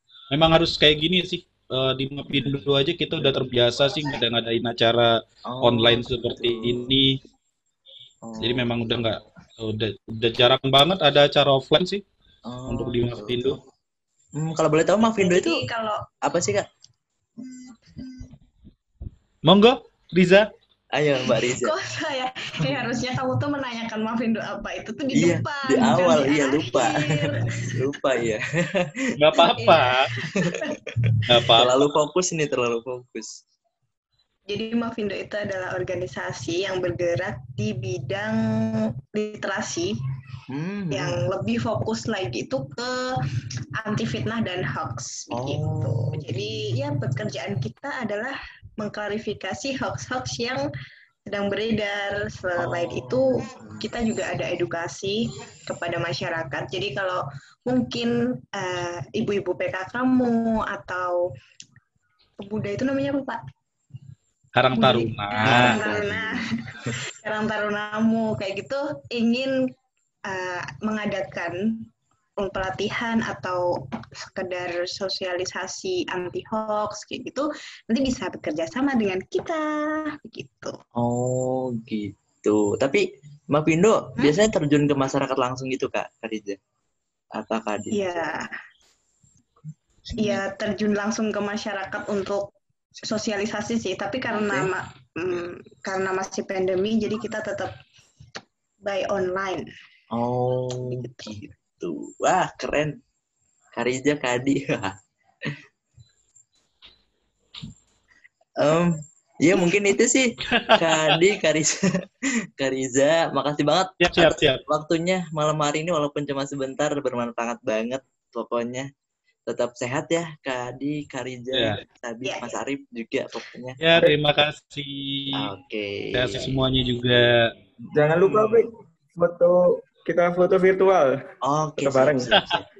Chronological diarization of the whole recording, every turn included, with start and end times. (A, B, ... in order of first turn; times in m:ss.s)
0:00.3-0:07.1 A
0:02.3-0:02.7 B
0:03.2-0:03.5 B
0:05.5-0:06.9 B
0:08.2-0:09.2 B
0:08.4-0:12.0 A
0:12.4-0:13.5 B
0:12.7-0:13.6 A
0:14.4-0:15.6 B
0:15.0-0:16.0 C
0:16.2-0:16.6 B
0:17.4-0:18.2 C
0:19.4-0:20.5 A
0:20.9-0:21.7 B
0:21.3-0:27.5 C
0:25.1-0:29.0 B
0:29.2-0:30.1 A
0:30.3-0:30.7 C
0:31.3-0:31.7 A
0:31.5-0:33.3 B
0:34.5-0:38.4 C
0:39.1-0:39.9 C
0:40.5-0:41.2 B
0:40.9-0:43.0 C
0:43.8-0:50.6 C
0:45.3-0:46.6 B
0:51.2-1:01.2 C
0:52.6-0:53.9 B
1:02.4-1:03.4 C
1:04.5-1:05.8 A
1:04.7-1:06.4 C
1:05.4-1:06.9 B
1:07.2-1:09.5 C
1:10.3-1:11.6 C
1:12.4-1:13.6 C
1:14.3-1:20.7 C
1:21.0-1:26.6 B
1:27.3-1:28.2 B
1:27.9-1:28.4 C
1:30.1-1:30.4 B
1:30.2-1:32.4 C
1:33.1-1:37.7 C
1:34.4-1:34.7 B
1:38.8-1:39.6 C
1:40.1-1:42.9 B
1:40.9-1:41.3 C
1:43.7-1:44.9 B
1:48.6-1:50.2 B
1:50.6-1:51.1 A
1:50.8-1:51.7 B
1:52.6-1:58.8 B
1:54.0-1:54.6 A
1:59.5-2:03.8 B
2:01.5-2:01.8 A
2:02.2-2:02.6 C
2:03.8-2:05.5 A
2:05.4-2:06.5 B
2:06.1-2:07.4 A
2:08.0-2:11.1 D
2:08.2-2:08.6 B
2:11.4-2:12.6 B
2:11.8-2:12.3 D